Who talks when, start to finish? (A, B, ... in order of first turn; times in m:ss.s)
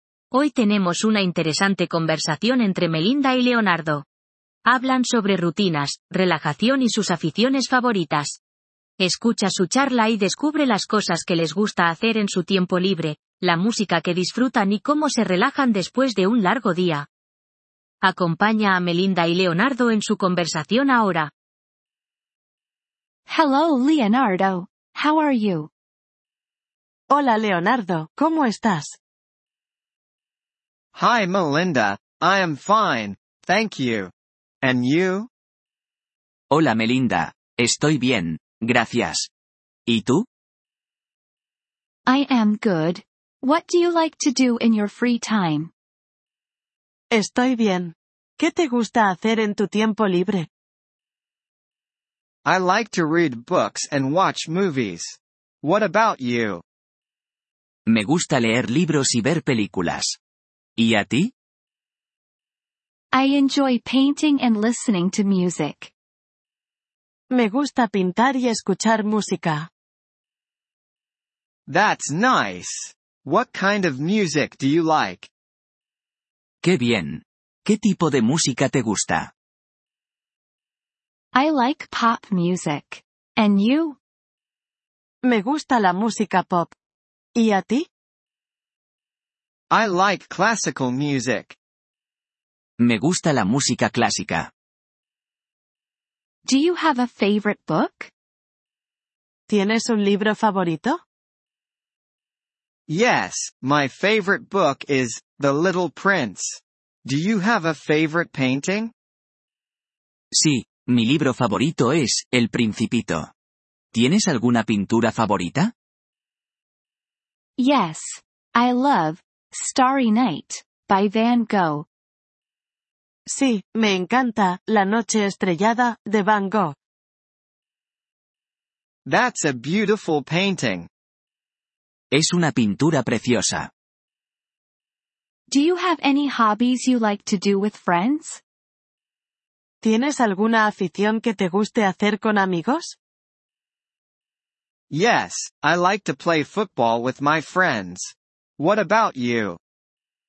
0:00.3-0:04.0 A
0:04.6-0:08.4 A
0:09.0-0:17.1 A
0:18.0-0:21.3 A
0:23.3-0:25.7 B
0:27.1-0:29.0 C
0:30.9-0:35.3 D
0:36.5-0:39.3 E
0:39.9-0:40.3 E
0:42.1-0:45.7 B
0:47.1-0:50.5 C
0:52.4-0:56.6 D
0:57.9-1:00.2 E
1:00.8-1:01.3 E
1:03.1-1:05.9 B
1:07.3-1:09.7 C
1:11.7-1:15.3 D
1:16.6-1:19.3 E
1:21.3-1:24.0 B
1:25.2-1:26.7 C
1:27.4-1:27.9 C
1:29.7-1:31.6 D
1:32.8-1:34.5 E
1:36.4-1:38.1 B
1:39.5-1:41.0 C
1:42.9-1:48.9 D
1:50.3-1:53.3 E
1:53.9-1:55.7 E
1:57.6-2:01.9 B
2:03.3-2:06.7 C
2:09.0-2:10.9 D
2:12.1-2:13.7 E
2:15.5-2:18.4 B
2:19.8-2:23.0 C
2:24.9-2:29.6 D